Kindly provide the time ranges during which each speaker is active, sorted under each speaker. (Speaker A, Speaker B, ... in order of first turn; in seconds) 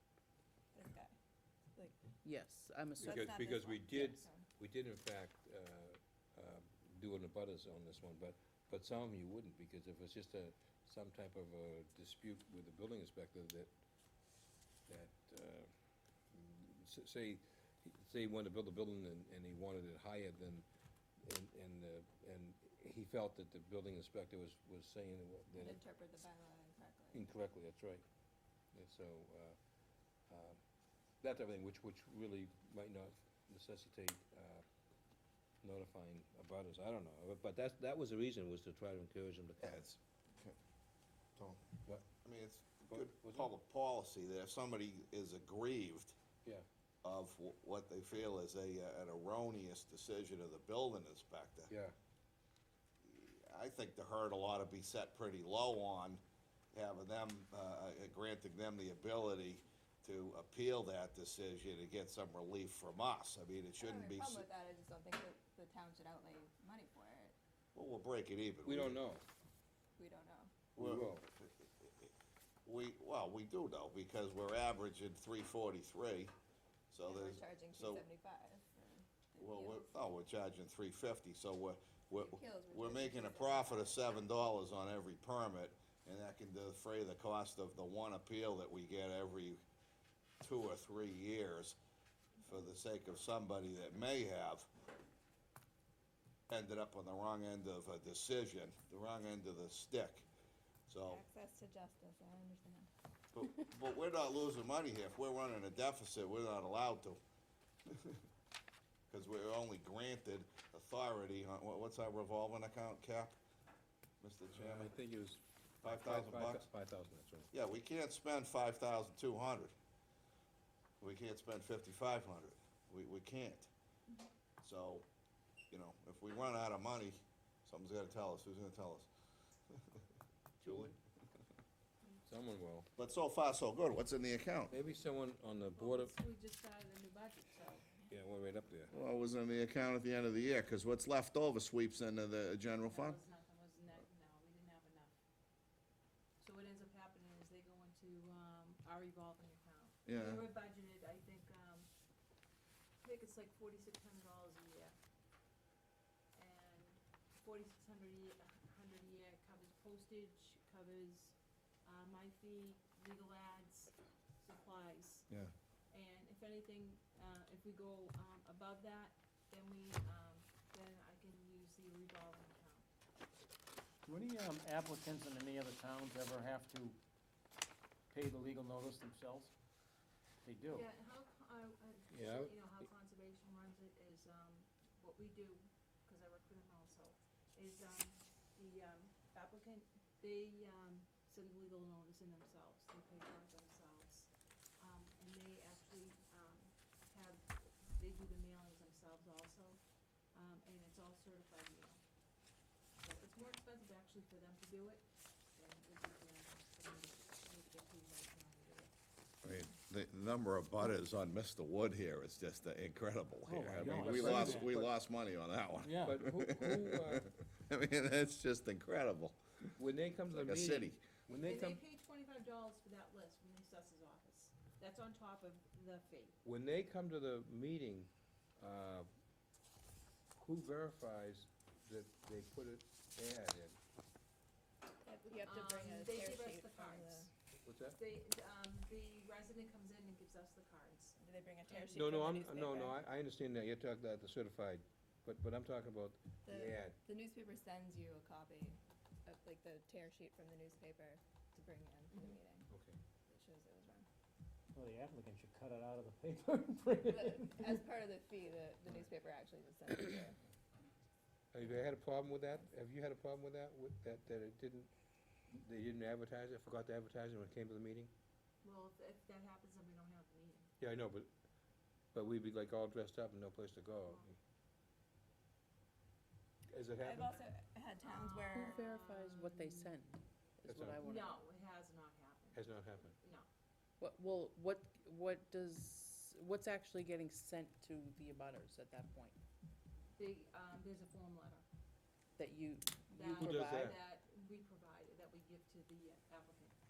Speaker A: 0.7-1.1, 3.0-4.5, 25.5-27.3, 63.8-67.3, 70.0-70.7, 77.0-79.9, 82.2-84.1, 101.1-102.9, 235.0-237.3, 241.2-243.0, 246.4-252.7, 253.3-254.0, 257.1-260.4, 277.0-278.9
Speaker B: 2.2-3.4, 278.5-281.4, 284.0-289.4, 292.4-293.9
Speaker C: 3.1-13.7, 14.9-15.7, 16.3-20.6, 21.2-25.7, 27.2-28.0, 28.7-29.6, 30.3-30.6, 31.2-34.6, 35.6-39.8, 43.0-43.5, 68.7-69.2, 70.8-71.2, 114.6-117.5, 130.6-130.9, 132.2-132.9, 134.7-136.1, 138.1-138.9, 182.1-182.5, 213.9-214.8, 216.0-217.2, 219.8-221.8, 226.4-229.1, 230.3-233.8, 237.6-238.0, 242.0-246.9, 261.5-264.9, 265.5-268.1, 270.8-271.3, 272.1-274.3, 276.7-277.4, 280.7-281.0, 282.5-283.1, 293.4-293.9
Speaker D: 39.6-40.5, 41.4-41.6, 42.2-46.1, 47.0-51.7, 53.0-56.2, 56.7-64.5, 67.7-69.0, 70.8-72.1, 72.6-76.3, 76.9-78.0, 79.4-89.6, 90.4-91.8, 92.4-94.7, 96.5-100.2, 100.9-101.2, 103.3-107.2, 107.9-108.2, 109.1-113.3, 114.2-114.9, 115.8-116.7, 117.5-119.7, 121.0-123.7, 124.6-125.0, 125.7-129.1, 129.7-130.0, 130.6-130.9, 133.0-134.8, 138.9-143.2, 150.1-150.4, 209.4-219.7, 220.3-221.0
Speaker E: 135.7-137.9, 142.8-145.1, 146.4-151.9, 153.0-154.9, 156.3-165.3, 165.9-172.8, 180.7-199.8, 200.3-202.0, 203.0-208.9, 221.3-226.3, 235.4-237.3, 237.9-242.3, 268.6-270.7, 278.0-279.9, 281.0-283.5, 290.1-291.6, 293.1-296.7
Speaker F: 174.0-177.0, 178.1-179.5, 180.4-180.8, 213.4-214.7, 215.8-216.2, 254.7-257.7